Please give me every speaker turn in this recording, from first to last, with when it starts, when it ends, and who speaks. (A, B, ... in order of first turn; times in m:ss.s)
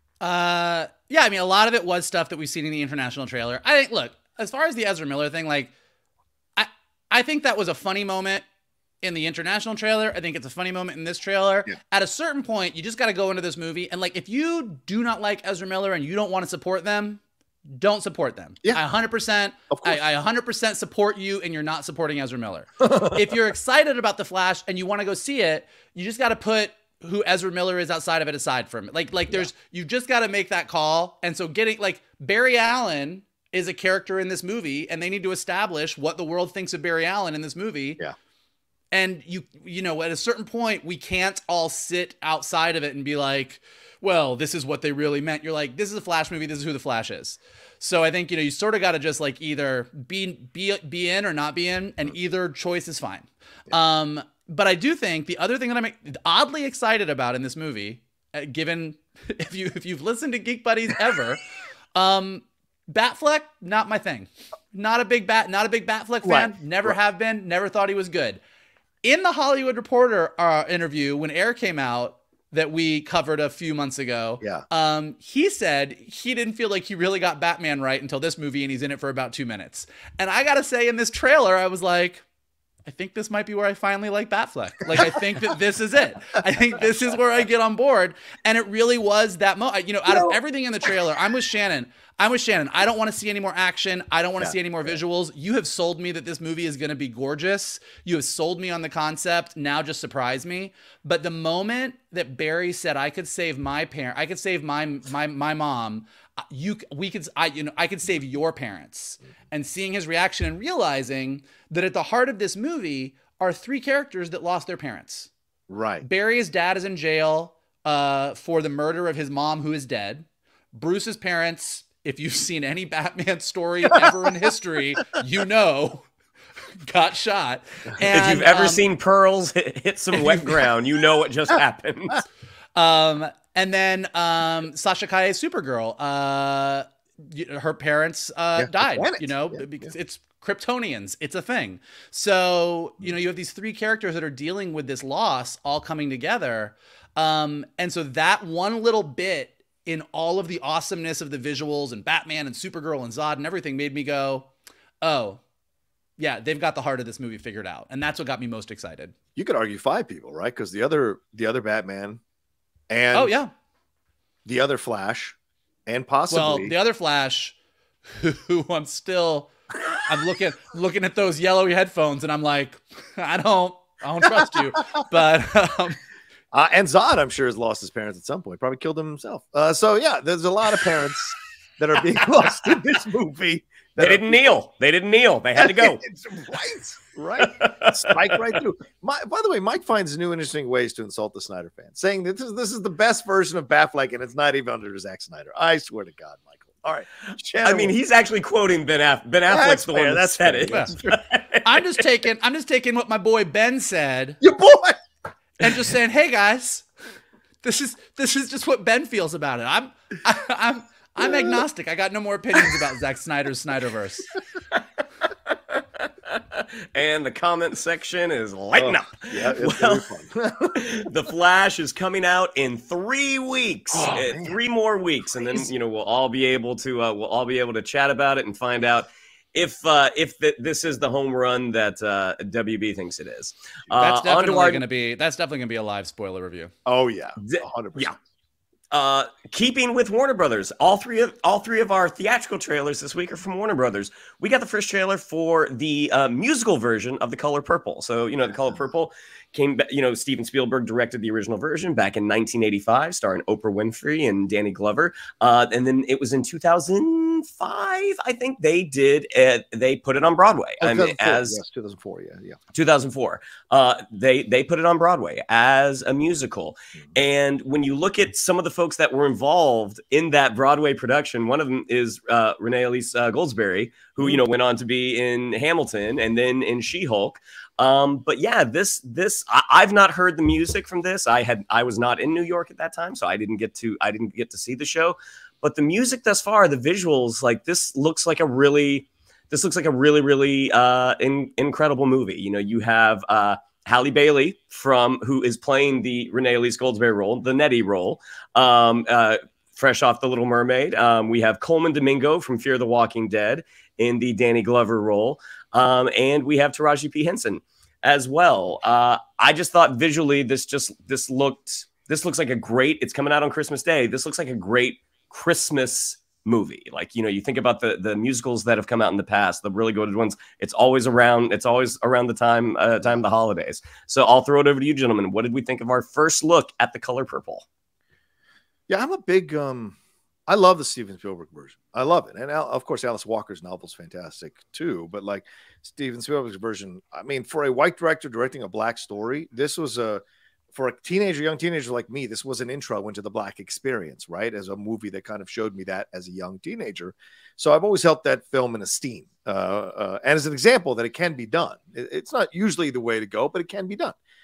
0:00.2-0:05.7 A
0:06.6-0:08.4 A
0:09.0-0:38.0 A
0:19.7-0:20.0 B
0:22.8-0:23.2 B
0:38.9-1:01.4 A
1:02.0-1:08.4 A
1:06.2-1:07.0 B
1:09.0-1:22.2 A
1:22.9-1:55.3 A
1:30.1-1:30.4 B
1:55.7-1:56.0 B
1:56.0-2:06.1 A
2:06.8-2:08.9 A
2:08.1-2:12.2 C
2:10.2-2:10.6 A
2:12.8-2:34.5 A
2:18.6-2:19.9 B
2:35.0-2:35.4 A
2:36.2-2:39.2 A
2:39.4-2:42.2 B
2:42.9-2:43.3 B
2:43.1-2:43.5 A
2:44.4-2:46.7 B
2:46.3-2:47.6 A
2:48.1-2:49.5 A
2:50.0-2:56.0 A
2:56.5-3:04.4 B
3:04.0-3:06.0 C
3:05.6-3:18.0 B
3:07.6-3:08.3 C
3:17.6-3:21.7 C
3:19.5-3:21.2 B
3:20.7-3:20.9 A
3:21.6-3:24.4 A
3:24.4-3:25.0 B
3:25.6-3:26.9 A
3:27.6-3:34.3 A
3:31.2-3:31.6 B
3:35.5-3:40.1 C
3:38.8-3:40.8 B
3:40.7-3:54.8 C
3:43.9-3:44.6 B
3:54.0-3:56.7 A
3:56.8-3:58.1 B
3:57.4-3:58.2 C
3:58.9-4:21.6 C
4:20.8-4:22.6 B
4:22.7-5:27.7 C
5:28.9-5:54.2 B